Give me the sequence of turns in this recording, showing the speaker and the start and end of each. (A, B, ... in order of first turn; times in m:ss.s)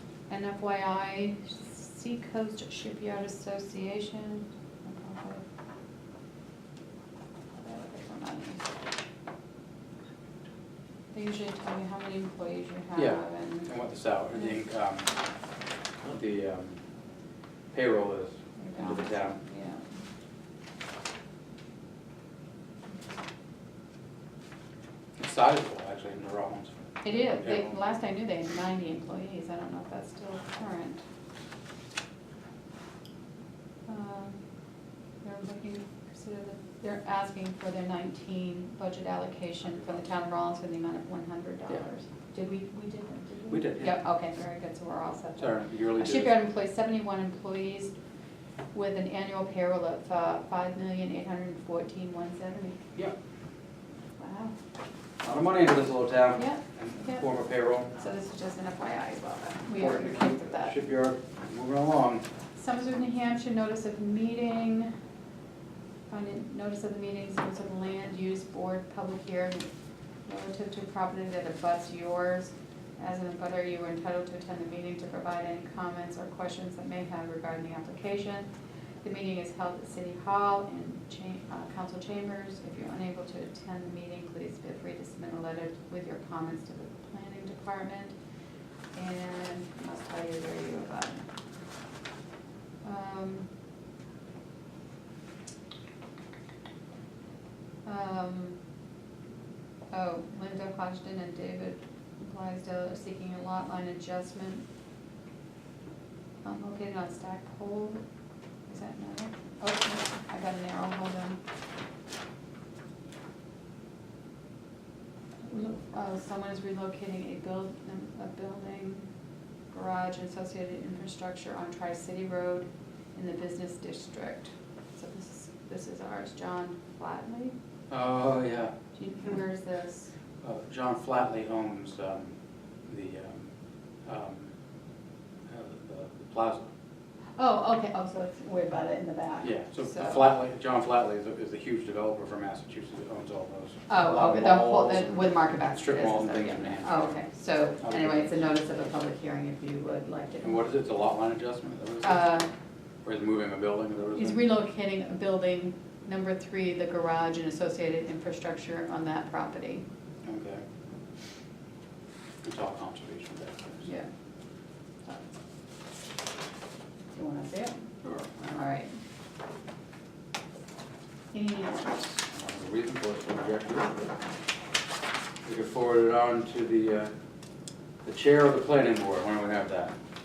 0:00.3-0:05.4 A
0:07.6-0:08.8 A
0:11.1-0:13.7 A
0:13.0-0:15.1 B
0:16.0-0:16.8 B
0:17.7-0:19.4 B
0:18.6-0:19.9 A
0:25.2-0:27.8 B
0:27.0-0:31.0 A
0:33.9-0:34.4 A
0:35.2-0:47.9 A
0:43.5-0:44.0 B
0:45.4-0:46.4 B
0:48.7-0:52.8 A
0:54.2-0:54.6 A
0:55.2-0:57.9 B
0:56.4-0:57.3 A
0:58.0-1:00.8 A
0:59.8-1:02.2 B
1:02.6-1:04.9 A
1:06.1-1:09.7 A
1:10.3-1:18.5 A
1:19.0-1:28.2 A
1:28.9-1:31.3 A
1:32.8-1:33.5 A
1:37.8-1:38.6 A
1:39.9-1:44.6 A
1:46.4-1:48.0 A
1:48.7-1:51.4 A
1:55.5-1:59.1 A
1:59.7-2:07.6 A
2:07.9-2:08.7 B
2:09.0-2:10.1 A
2:10.4-2:12.3 B
2:12.9-2:13.5 B
2:14.0-2:14.5 B
2:15.5-2:16.7 B
2:17.4-2:20.3 A
2:19.4-2:27.2 B
2:23.9-2:30.7 A
2:27.8-2:28.5 B
2:30.4-2:32.3 B
2:32.0-2:32.5 A
2:33.0-2:34.5 B
2:34.2-2:39.8 A
2:40.2-2:40.6 B
2:42.4-2:43.9 B
2:43.8-2:44.1 A
2:47.1-2:49.0 A
2:51.3-2:52.1 A
2:52.3-2:54.1 B
2:55.4-2:57.1 B
2:58.0-2:59.9 B